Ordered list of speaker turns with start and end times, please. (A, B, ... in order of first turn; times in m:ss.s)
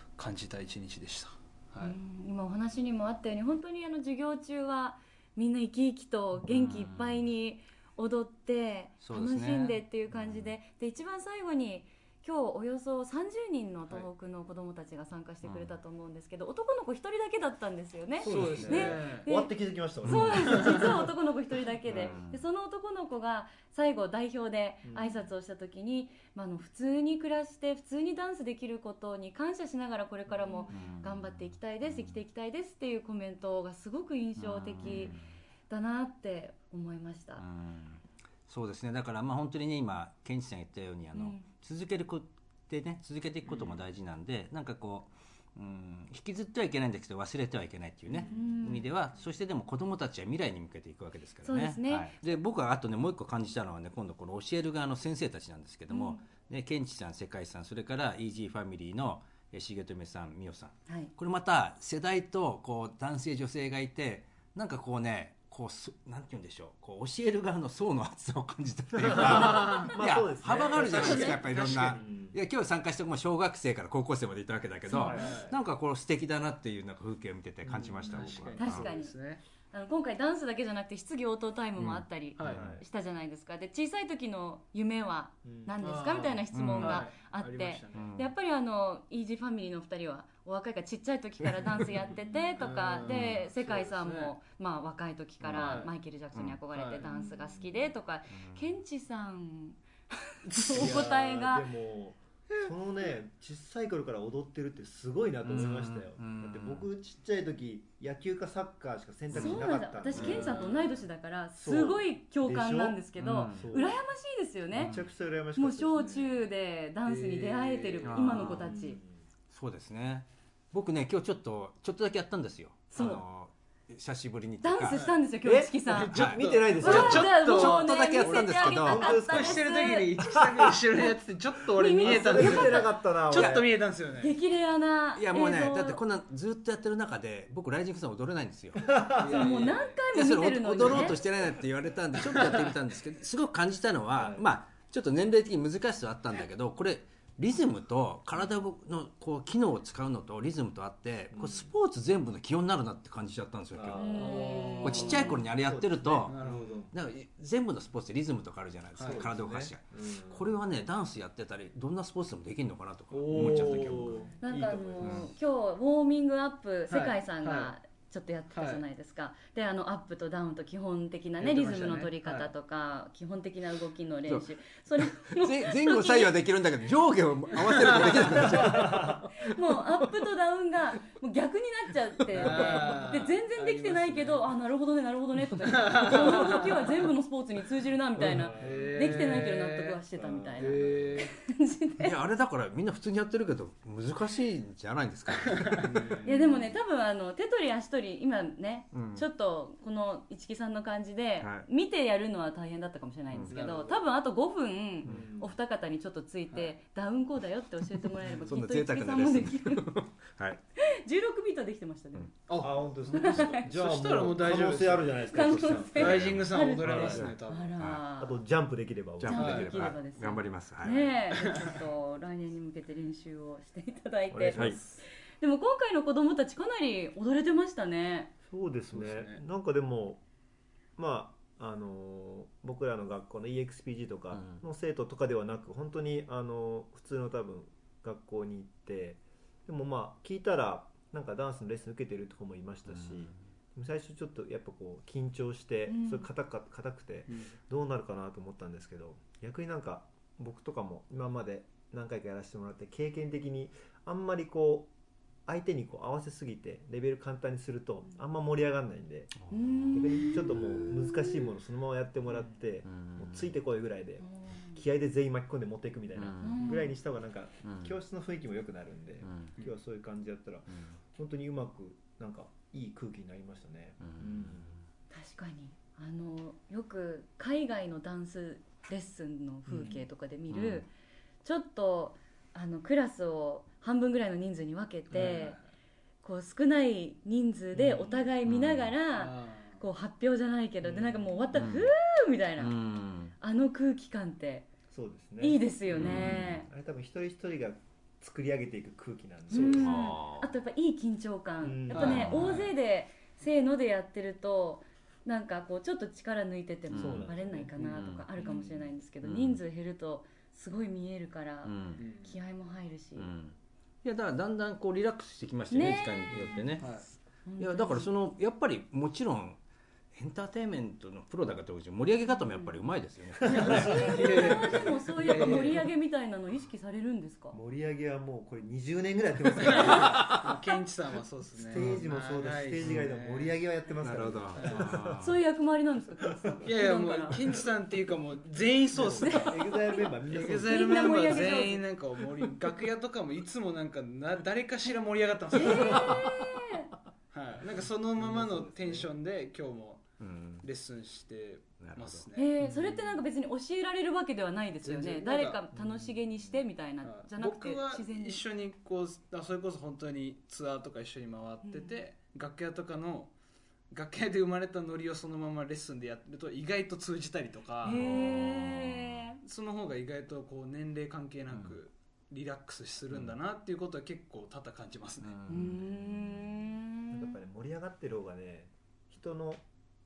0:00.2-0:02.0 A
0:01.8-0:35.2 B
0:06.5-0:07.2 C
0:09.0-0:10.6 C
0:15.4-0:15.8 C
0:18.2-0:21.1 D
0:18.2-0:19.3 A
0:18.3-0:18.6 C
0:20.0-0:20.4 C
0:20.4-0:20.8 A
0:21.9-0:22.2 D
0:21.9-0:22.4 C
0:24.8-0:25.3 D
0:30.7-0:32.2 C
0:34.4-0:35.3 C
0:35.7-0:37.4 B
0:37.4-1:18.9 C
0:41.1-0:41.4 B
0:48.3-0:48.9 B
0:51.4-0:52.2 B
0:55.9-0:56.2 B
1:09.0-1:12.4 D
1:09.1-1:09.9 A
1:10.8-1:11.9 A
1:14.9-1:15.2 B
1:15.0-1:15.4 D
1:15.0-1:15.5 A
1:17.6-1:18.7 D
1:17.8-1:19.4 A
1:18.6-1:19.2 B
1:19.7-1:39.8 B
1:21.8-1:22.7 C
1:22.4-1:22.7 A
1:22.4-1:22.8 D
1:25.4-1:25.8 D
1:25.8-1:28.1 A
1:26.5-1:27.0 C
1:28.0-1:28.3 C
1:32.6-1:34.4 A
1:33.0-1:33.4 C
1:35.4-1:35.7 C
1:35.5-1:35.9 A
1:36.3-1:36.6 C
1:36.7-1:37.6 A
1:38.3-1:38.7 C
1:40.4-1:41.1 A
1:40.5-1:41.7 B
1:40.7-1:50.7 D
1:45.5-1:46.9 C
1:49.3-1:55.0 B
1:49.3-1:49.6 C
1:50.2-1:50.5 C
1:50.2-1:51.1 A
1:51.6-1:54.0 D
1:53.2-1:53.9 C
1:54.8-1:55.0 C
1:54.8-1:56.4 D
1:55.6-1:59.0 B
1:57.0-1:58.6 A
1:58.0-1:58.7 C
1:58.6-1:59.2 D
1:59.5-2:05.1 C
2:02.9-2:03.2 B
2:04.6-2:06.1 B
2:04.8-2:05.2 A
2:05.4-2:07.3 D
2:05.9-2:08.4 A
2:06.1-2:09.4 C
2:06.8-2:10.1 B
2:08.6-2:10.8 D
2:09.1-2:14.4 A
2:11.8-2:13.5 B
2:12.0-2:13.7 D
2:14.2-2:16.0 B
2:15.2-2:19.0 C
2:18.8-2:19.5 D
2:19.1-2:20.1 A
2:19.2-2:21.2 B
2:20.1-2:36.4 C
2:22.2-2:22.8 A
2:24.2-2:24.4 D
2:31.3-2:31.7 D
2:33.7-2:37.0 D
2:34.0-2:35.4 B
2:34.1-2:35.4 A
2:36.3-2:36.8 A
2:36.9-2:44.3 C
2:39.0-2:39.3 A
2:39.0-2:40.6 D
2:43.1-2:44.3 A
2:43.3-2:45.3 D
2:44.4-2:56.4 B
2:45.0-2:45.3 C
2:46.9-2:47.7 A
2:48.5-2:48.8 A
2:51.4-2:52.5 A
2:55.0-2:59.6 C
2:57.7-2:58.2 A
2:58.5-2:59.2 D
2:59.4-3:12.1 B
3:02.4-3:04.5 A
3:05.6-3:07.1 A
3:08.2-3:11.3 D
3:08.5-3:10.0 A
3:10.6-3:11.3 A
3:12.0-3:16.0 C
3:15.6-3:16.3 A
3:16.2-3:16.7 D
3:16.2-3:30.0 B
3:18.9-3:19.3 C
3:21.4-3:21.7 C
3:23.5-3:24.0 A
3:25.0-3:25.6 D
3:28.4-3:30.6 C
3:31.0-3:32.5 B
3:32.5-3:37.8 A
3:32.6-3:37.3 D
3:33.1-3:33.7 B
3:35.3-3:38.4 B
3:36.1-3:36.4 C
3:37.1-3:38.0 C
3:38.2-3:39.6 D
3:39.2-3:41.1 C
3:39.3-3:48.3 B
3:39.3-3:39.8 A
3:41.3-3:41.8 A
3:44.3-3:44.8 D
3:48.5-3:50.2 D
3:48.9-3:49.4 A
3:51.0-4:14.9 D
3:54.3-3:54.6 C
4:02.9-4:03.4 C
4:05.9-4:06.3 B
4:07.3-4:07.5 A
4:15.5-4:19.3 D
4:19.4-4:20.8 C
4:19.5-4:21.4 B
4:19.9-4:34.7 D
4:22.9-4:23.4 C
4:24.2-4:24.8 B
4:26.2-4:26.6 C
4:26.4-4:26.9 B
4:27.6-4:27.9 C
4:29.2-4:29.5 C
4:34.0-4:34.8 C
4:35.1-4:40.9 B
4:40.5-4:40.9 C
4:41.4-4:45.6 B
4:45.1-4:45.7 A
4:46.2-4:52.8 B
4:47.8-4:49.0 C
4:49.1-4:49.8 A
4:51.0-4:51.4 A
4:51.6-4:51.9 C
4:52.6-4:53.3 C
4:53.4-4:54.7 B
4:54.9-5:00.1 D
4:55.4-4:56.7 B
4:55.9-4:56.6 C
4:59.5-5:13.3 B
4:59.8-5:00.4 C
5:01.6-5:02.7 D
5:01.9-5:02.7 A
5:02.1-5:02.6 C
5:06.9-5:09.6 C
5:06.9-5:07.8 D
5:11.6-5:12.0 C
5:12.0-5:12.4 A
5:13.2-5:16.9 C
5:15.7-5:16.6 B
5:16.8-5:17.1 A
5:17.5-5:18.1 B
5:17.6-5:19.6 C
5:20.1-5:24.4 C
5:22.3-5:22.7 B
5:23.4-5:25.8 D
5:23.4-5:25.9 A
5:23.6-5:27.6 B
5:27.5-5:30.3 D
5:29.6-5:33.6 A
5:30.1-5:30.4 C
5:31.6-5:35.2 D
5:34.0-5:35.4 C
5:34.6-5:34.9 A
5:35.2-5:37.4 B
5:36.6-5:46.1 A
5:39.0-5:41.6 D
5:39.2-5:40.1 B
5:40.7-5:41.8 B
5:45.6-5:46.9 B
5:47.3-5:52.6 A
5:48.1-5:49.1 D
5:50.2-5:50.6 C
5:51.8-5:52.3 C
5:52.4-5:58.4 B
5:54.8-5:55.6 A
5:55.7-5:56.4 D
5:57.0-6:03.4 A
6:01.6-6:02.0 B
6:03.9-6:08.2 A
6:07.8-6:09.4 B
6:07.9-6:09.2 C
6:09.4-6:15.4 A
6:11.5-6:11.8 C
6:13.1-6:13.4 C
6:15.2-6:16.6 C
6:15.5-6:17.4 B
6:17.1-6:19.6 D